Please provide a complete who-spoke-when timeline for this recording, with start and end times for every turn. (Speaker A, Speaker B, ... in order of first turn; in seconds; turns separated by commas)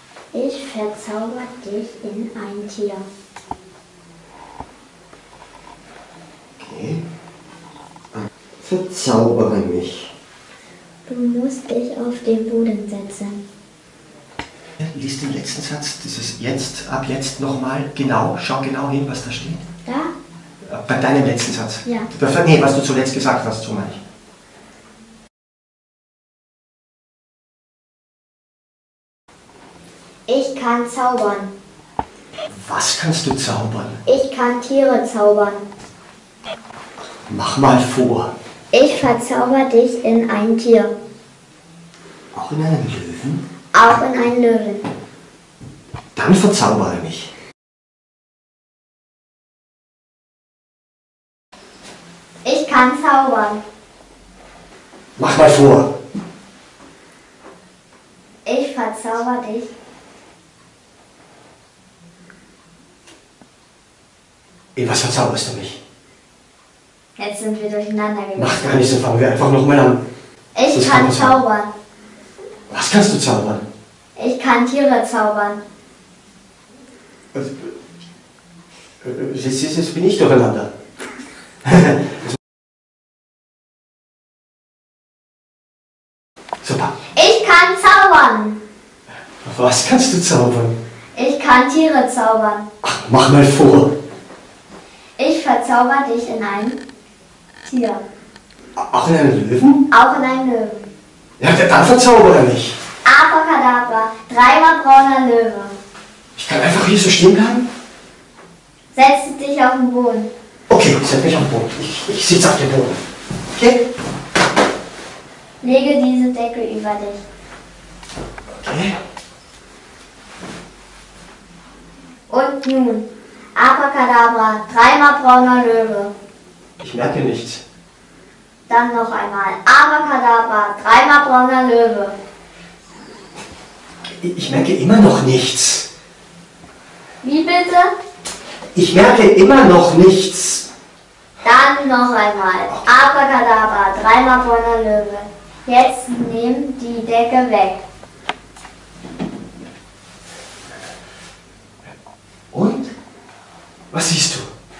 Speaker A: 0.3-3.1, Speaker B: 6.6-7.0, Speaker B: 8.1-10.1, Speaker A: 11.1-13.4, Speaker B: 14.8-19.6, Speaker A: 19.8-20.1, Speaker B: 20.6-24.0, Speaker A: 30.3-31.5, Speaker B: 32.5-34.0, Speaker A: 34.0-35.7, Speaker B: 37.2-38.3, Speaker A: 38.7-40.9, Speaker B: 42.3-43.4, Speaker A: 43.7-44.9, Speaker B: 46.1-47.3, Speaker A: 52.4-53.6, Speaker B: 55.2-55.9, Speaker A: 58.4-59.7, Speaker B: 64.8-65.8, Speaker A: 67.2-68.8, Speaker B: 68.3-70.0, Speaker A: 70.5-71.7, Speaker B: 70.7-71.4, Speaker B: 72.7-73.6, Speaker A: 74.2-75.6, Speaker B: 77.3-77.7, Speaker B: 79.0-80.7, Speaker B: 81.6-82.2, Speaker B: 86.6-86.9, Speaker A: 87.1-88.6, Speaker B: 89.4-90.8, Speaker A: 91.1-92.7, Speaker B: 92.8-93.9, Speaker A: 95.2-96.8, Speaker A: 97.6-98.0, Speaker B: 98.8-99.8, Speaker A: 99.9-100.9, Speaker B: 101.4-102.8, Speaker A: 103.0-105.7, Speaker B: 106.3-107.7, Speaker A: 108.9-110.3, Speaker B: 110.7-113.0, Speaker B: 113.5-113.8, Speaker A: 115.6-117.2, Speaker B: 118.5-119.0, Speaker A: 122.3-126.1, Speaker B: 126.8-127.6, Speaker A: 128.7-132.2, Speaker B: 134.2-135.9, Speaker A: 137.2-137.9, Speaker B: 138.7-140.7, Speaker A: 141.4-147.8, Speaker B: 152.5-152.9, Speaker B: 153.9-154.5